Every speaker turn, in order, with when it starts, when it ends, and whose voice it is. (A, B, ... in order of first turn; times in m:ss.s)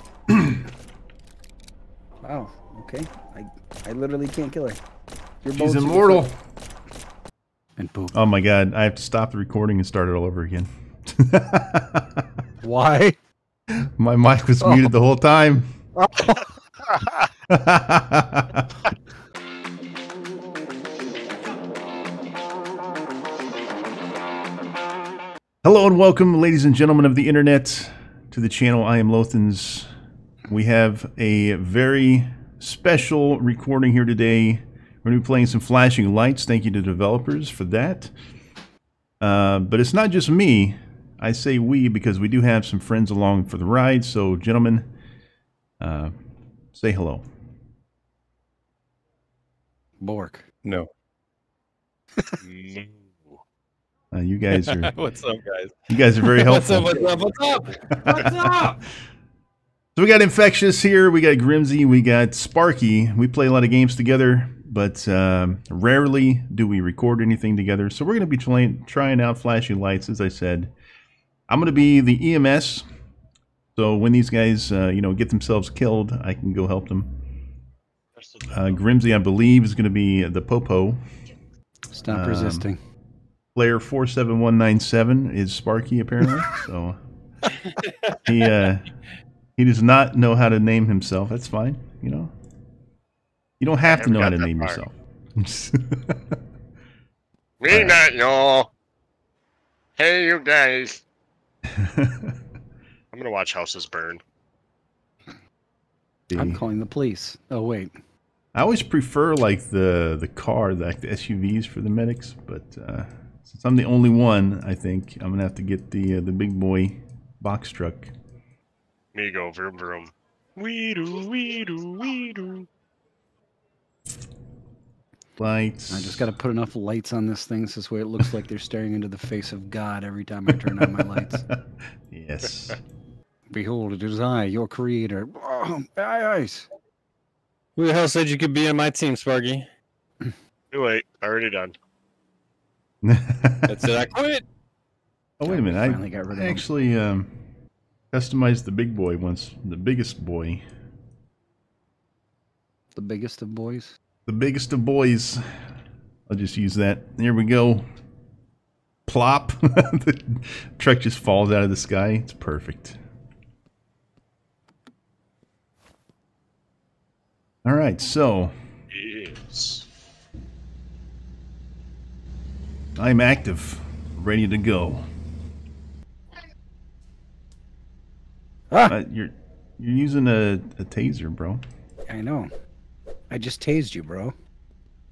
0:00.3-0:00.6 A
0:02.2-0:04.8 B
0:05.4-0:06.2 B
0:05.6-0:06.3 A
0:07.8-0:08.2 B
0:08.1-0:12.3 A
0:12.6-0:13.2 B
0:13.7-0:15.7 A
0:16.0-0:16.4 B
0:17.5-0:18.8 A
0:25.6-0:29.9 A
0:30.5-0:38.1 A
0:39.2-0:44.9 A
0:45.8-0:46.1 A
0:46.7-0:47.3 A
0:50.0-0:50.4 B
0:52.4-0:53.0 C
0:54.1-0:54.9 A
0:54.5-0:58.8 D
0:55.9-0:57.1 A
0:58.0-0:58.6 A
1:00.0-1:10.7 A
1:11.5-1:12.8 A
1:13.8-1:17.1 A
1:18.2-1:18.8 C
1:18.5-1:21.0 A
1:21.9-1:22.8 B
1:22.1-1:22.7 A
1:23.6-1:27.0 A
1:27.8-1:28.2 D
1:28.3-1:28.9 A
1:29.6-1:32.3 A
1:33.6-1:36.4 A
1:33.9-1:34.8 C
1:37.6-1:38.7 C
1:37.7-1:38.0 A
1:40.0-1:41.0 C
1:41.7-1:42.4 A
1:43.1-1:44.2 C
1:46.3-1:46.6 A
1:46.3-1:47.9 B
1:48.5-1:58.1 A
1:59.1-2:02.7 C
2:05.4-2:06.3 A
2:05.9-2:11.4 B
2:10.5-2:12.8 A
2:13.5-2:16.7 B
2:17.8-2:19.7 D
2:20.7-2:21.8 C
2:23.0-2:23.9 A
2:23.7-2:24.4 D
2:25.4-2:27.3 A
2:25.4-2:26.7 B
2:28.1-2:30.6 A
2:33.0-2:34.0 B
2:34.3-2:35.4 A
2:36.3-2:37.8 A
2:39.1-2:43.0 A
2:47.6-2:48.5 A
2:48.9-2:49.9 C
2:53.0-2:55.1 A
2:58.9-3:01.6 A
3:02.1-3:02.5 B
3:03.3-3:04.3 B